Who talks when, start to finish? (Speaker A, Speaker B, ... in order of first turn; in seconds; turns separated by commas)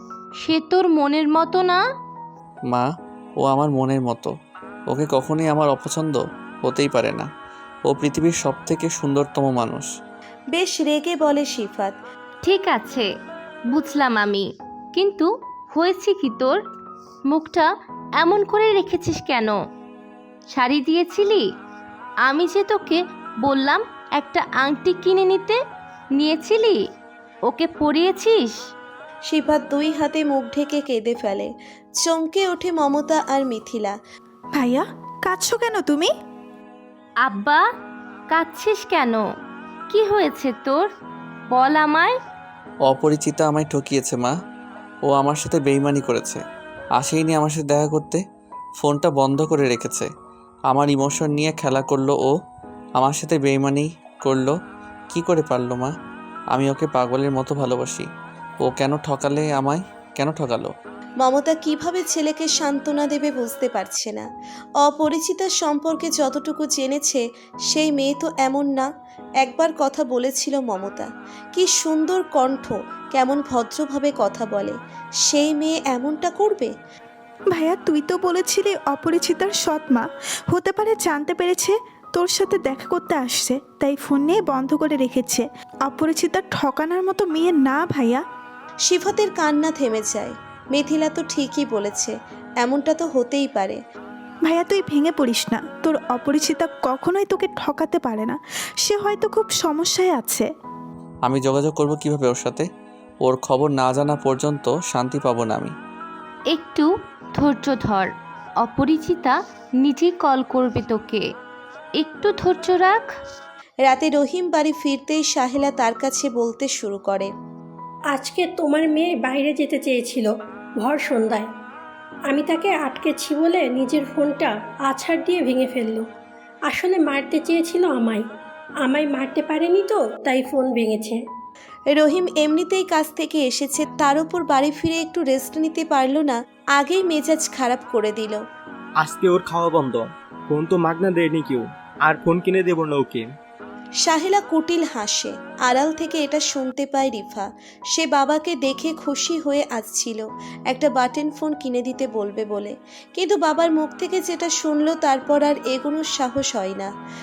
Speaker A: 0.4-1.8, Speaker B: 3.4-4.3, Speaker B: 4.9-7.3, Speaker B: 7.9-9.9, Speaker C: 10.5-11.9, Speaker A: 12.4-13.1, Speaker A: 13.7-16.6, Speaker A: 17.3-17.7, Speaker A: 18.2-19.6, Speaker A: 20.5-21.4, Speaker A: 22.3-25.6, Speaker A: 26.2-26.8, Speaker A: 27.5-28.6, Speaker C: 29.3-31.5, Speaker C: 32.0-34.0, Speaker D: 34.5-36.1, Speaker A: 37.2-37.6, Speaker A: 38.3-39.2, Speaker A: 39.9-40.9, Speaker A: 41.5-42.2, Speaker B: 42.9-44.3, Speaker B: 45.1-46.4, Speaker B: 47.0-48.2, Speaker B: 48.8-50.1, Speaker B: 50.7-52.3, Speaker B: 53.0-54.5, Speaker B: 55.1-55.9, Speaker B: 56.5-58.1, Speaker B: 58.6-60.7, Speaker C: 61.2-64.3, Speaker C: 64.8-68.9, Speaker C: 69.4-76.7, Speaker D: 77.5-88.2, Speaker C: 88.9-93.8, Speaker D: 94.5-100.5, Speaker B: 101.2-102.7, Speaker B: 103.2-105.7, Speaker A: 106.5-108.1, Speaker A: 108.6-111.2, Speaker A: 112.0-113.0, Speaker C: 113.9-117.3, Speaker E: 118.1-121.5, Speaker E: 122.3-126.1, Speaker E: 126.7-128.2, Speaker E: 128.8-131.2, Speaker C: 131.9-138.4, Speaker F: 139.0-143.3, Speaker C: 144.0-156.9